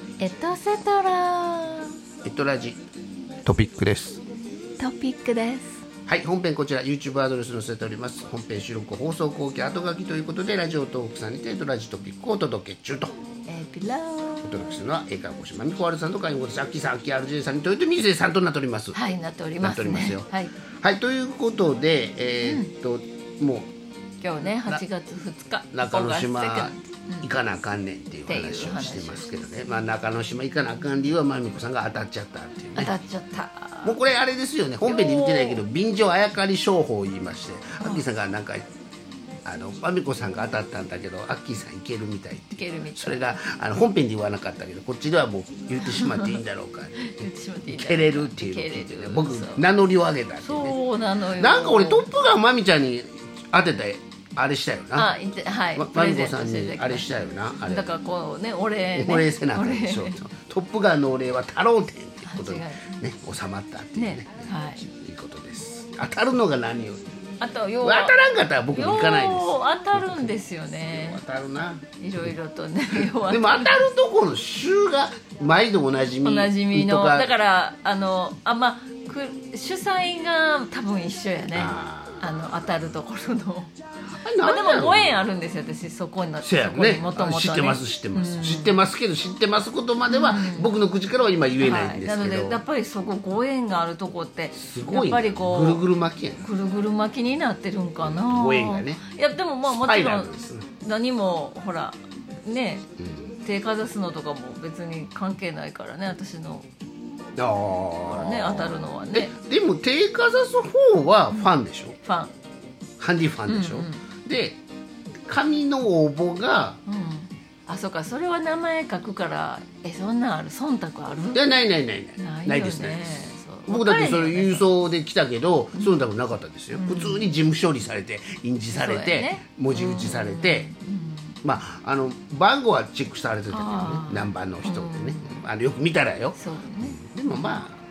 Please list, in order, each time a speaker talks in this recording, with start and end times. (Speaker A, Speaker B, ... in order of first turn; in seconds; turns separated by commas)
Speaker A: 0.2-1.9, Speaker B: 2.2-2.8, Speaker B: 3.4-4.2, Speaker A: 4.8-5.8, Speaker B: 6.1-13.1, Speaker A: 13.5-14.5, Speaker B: 14.4-20.3, Speaker A: 18.9-20.5, Speaker B: 20.8-23.7, Speaker A: 22.4-22.7, Speaker A: 24.2-27.3, Speaker B: 25.7-32.9, Speaker A: 28.3-29.4, Speaker A: 32.8-34.0, Speaker B: 33.8-38.6, Speaker A: 34.8-35.6, Speaker B: 39.4-55.1, Speaker A: 42.5-43.3, Speaker A: 45.9-46.4, Speaker A: 47.0-49.6, Speaker A: 50.4-52.1, Speaker A: 55.0-60.2, Speaker B: 55.8-58.0, Speaker B: 58.9-67.1, Speaker A: 62.2-63.0, Speaker A: 64.0-64.8, Speaker A: 67.4-68.2, Speaker B: 67.8-70.4, Speaker A: 68.7-71.2, Speaker B: 70.9-72.3, Speaker A: 72.0-73.9, Speaker B: 73.0-77.3, Speaker A: 76.2-83.7, Speaker B: 81.5-83.0, Speaker B: 84.2-85.3, Speaker A: 84.4-88.8, Speaker B: 86.4-92.6, Speaker A: 90.1-90.7, Speaker A: 91.6-95.8, Speaker B: 94.5-96.5, Speaker A: 96.4-102.9, Speaker B: 98.0-99.0, Speaker B: 99.7-100.6, Speaker B: 103.0-103.2, Speaker A: 103.4-106.7, Speaker B: 107.4-112.0, Speaker A: 108.1-109.3, Speaker A: 112.0-112.3, Speaker B: 113.0-114.6, Speaker A: 113.5-114.0, Speaker B: 115.3-116.8, Speaker A: 116.8-121.5, Speaker B: 121.3-130.7, Speaker A: 122.2-124.7, Speaker A: 125.7-126.0, Speaker A: 126.7-127.3, Speaker A: 128.7-131.4, Speaker B: 131.4-137.8, Speaker A: 133.5-135.4, Speaker A: 136.4-137.6